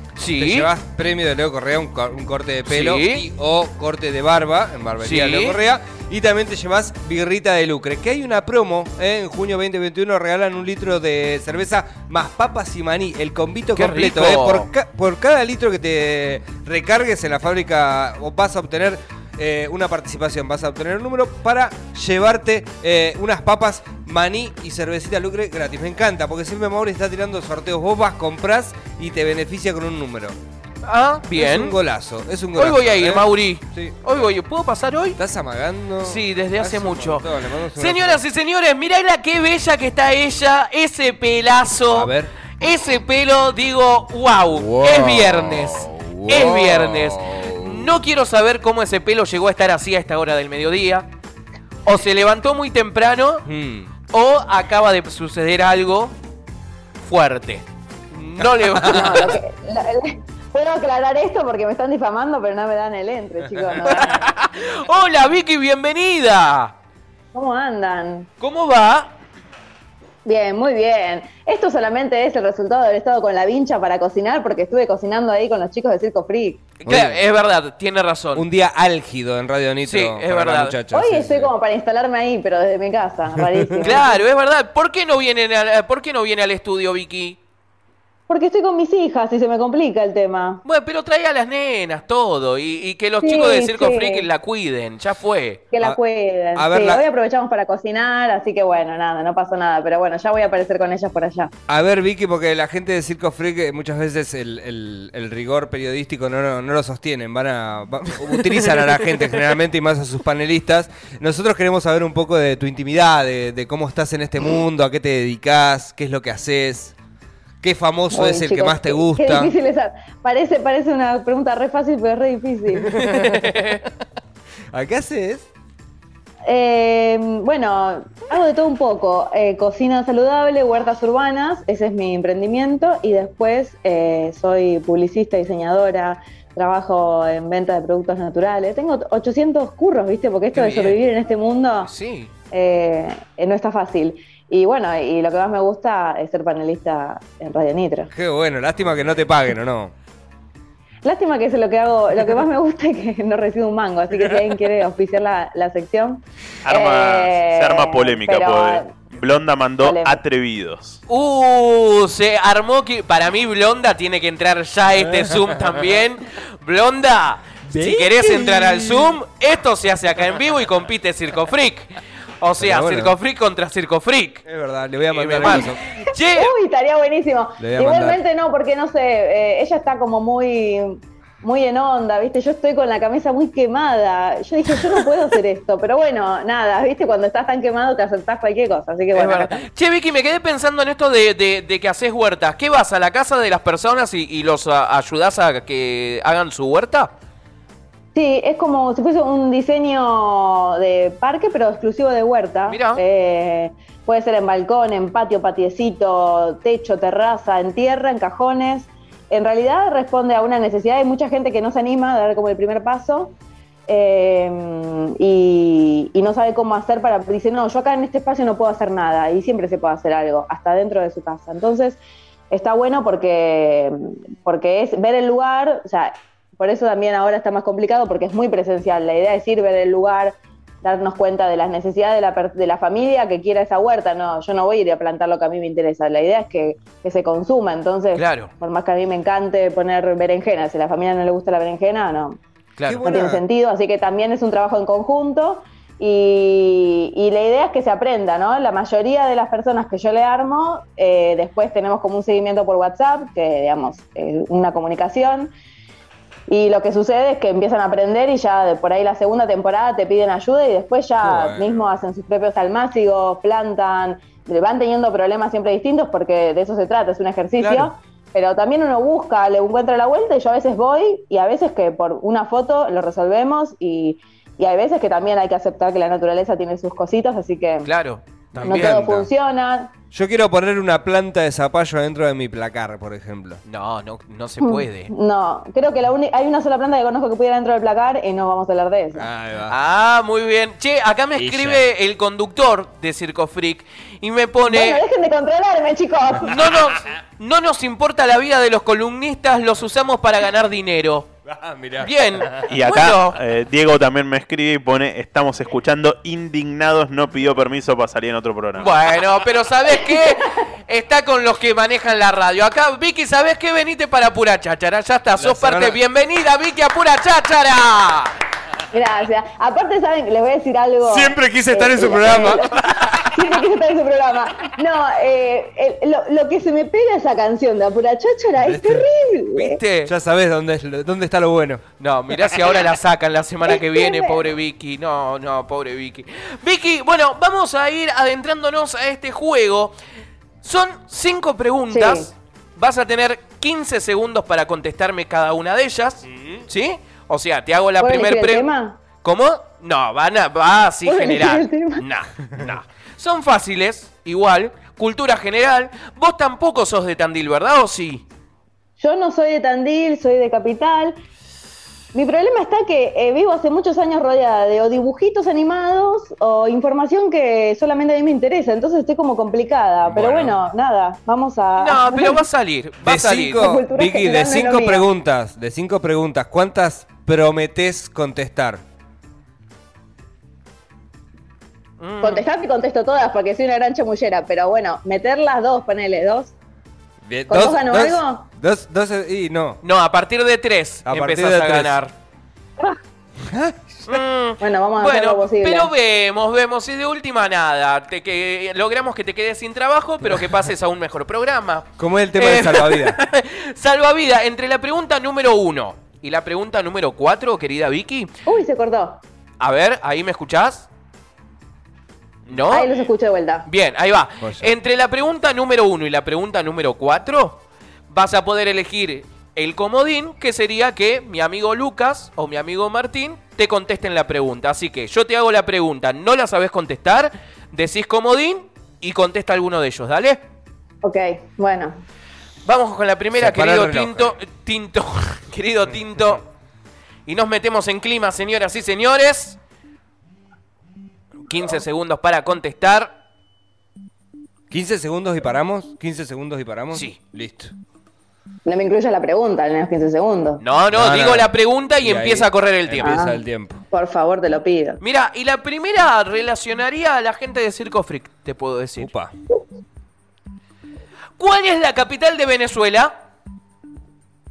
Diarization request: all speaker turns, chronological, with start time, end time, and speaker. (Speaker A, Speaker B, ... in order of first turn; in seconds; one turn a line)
Speaker A: 0.2-0.7
Speaker B: 0.3-30.3
Speaker A: 2.7-3.2
Speaker A: 5.0-5.6
Speaker A: 13.8-14.7
Speaker A: 30.8-31.8
Speaker B: 31.3-34.0
Speaker A: 32.5-35.2
Speaker B: 35.1-38.2
Speaker A: 36.0-51.1
Speaker B: 41.9-42.3
Speaker B: 44.5-47.9
Speaker A: 51.9-53.5
Speaker B: 53.4-53.9
Speaker A: 54.1-56.1
Speaker A: 57.0-59.4
Speaker B: 58.4-59.3
Speaker C: 58.8-64.3
Speaker A: 63.8-66.7
Speaker C: 67.3-68.3
Speaker A: 68.4-69.1
Speaker C: 70.2-76.7
Speaker A: 76.8-78.5
Speaker B: 76.8-77.2
Speaker B: 78.3-81.5
Speaker A: 79.8-80.8
Speaker C: 80.9-84.3
Speaker A: 83.8-87.4
Speaker C: 88.3-90.6
Speaker A: 90.6-95.6
Speaker C: 93.2-94.3
Speaker C: 95.7-101.5
Speaker B: 96.5-97.0
Speaker B: 101.7-116.9
Speaker A: 108.4-109.4
Speaker B: 117.6-119.5
Speaker C: 118.1-123.1
Speaker B: 122.8-123.9
Speaker A: 123.3-123.7
Speaker B: 124.7-125.5
Speaker C: 126.5-141.9
Speaker A: 140.5-141.0
Speaker A: 141.8-142.3
Speaker C: 142.5-148.1
Speaker B: 148.1-149.9
Speaker C: 151.0-159.1
Speaker D: 156.6-161.0
Speaker C: 159.8-160.2
Speaker A: 161.1-174.4
Speaker B: 164.9-165.9
Speaker B: 167.7-169.2
Speaker B: 172.6-173.2
Speaker B: 174.4-175.8
Speaker A: 175.1-176.5
Speaker C: 176.3-189.7
Speaker B: 177.6-178.2
Speaker A: 189.1-197.1
Speaker C: 198.1-213.3
Speaker A: 202.7-203.0
Speaker C: 213.9-222.0
Speaker C: 222.5-242.4
Speaker A: 238.1-238.5
Speaker A: 242.8-243.0
Speaker B: 242.8-243.4
Speaker C: 243.0-255.5
Speaker C: 256.5-277.9
Speaker B: 261.2-261.9
Speaker A: 267.6-267.9
Speaker A: 277.8-279.0
Speaker B: 278.5-279.3
Speaker C: 278.6-279.9
Speaker B: 280.1-283.6
Speaker A: 283.6-285.1
Speaker C: 284.6-289.3
Speaker B: 289.1-289.8
Speaker A: 289.7-295.0
Speaker B: 291.3-291.8
Speaker C: 294.7-296.6
Speaker A: 296.4-301.3
Speaker B: 301.4-302.7
Speaker A: 302.0-303.4
Speaker D: 302.6-308.9
Speaker A: 308.8-318.3
Speaker C: 309.9-310.5
Speaker B: 315.4-316.0
Speaker C: 318.9-329.8
Speaker B: 321.0-323.3
Speaker A: 322.9-323.2
Speaker B: 328.6-329.1
Speaker A: 329.5-330.1
Speaker B: 330.0-331.8
Speaker A: 332.0-339.9
Speaker C: 333.7-334.4
Speaker A: 340.6-358.2
Speaker C: 341.9-342.3
Speaker B: 346.3-346.6
Speaker C: 348.0-349.0
Speaker C: 351.0-352.0
Speaker C: 359.0-361.1
Speaker C: 362.1-372.5
Speaker B: 370.1-370.6
Speaker A: 371.8-373.7
Speaker B: 373.0-378.8
Speaker C: 373.6-375.1
Speaker A: 382.0-382.4
Speaker C: 382.2-386.5
Speaker B: 387.2-389.8
Speaker C: 387.5-388.4
Speaker A: 389.8-392.1
Speaker B: 391.1-392.0
Speaker B: 393.4-394.2
Speaker A: 394.1-408.3
Speaker C: 394.6-395.9
Speaker B: 402.0-403.2
Speaker C: 408.4-409.2
Speaker A: 409.6-410.9
Speaker A: 412.5-412.9
Speaker C: 412.7-413.7
Speaker A: 413.6-430.4
Speaker B: 414.4-414.7
Speaker C: 431.0-431.9
Speaker A: 432.6-436.4
Speaker B: 433.3-434.3
Speaker A: 437.2-439.6
Speaker A: 441.5-443.2
Speaker B: 444.7-447.7
Speaker A: 446.9-447.2
Speaker C: 448.6-450.6
Speaker A: 450.6-453.2
Speaker B: 450.9-451.5
Speaker B: 452.0-453.8
Speaker C: 453.0-453.4
Speaker C: 453.9-455.0
Speaker A: 455.0-459.1
Speaker B: 459.0-459.3
Speaker A: 461.4-463.1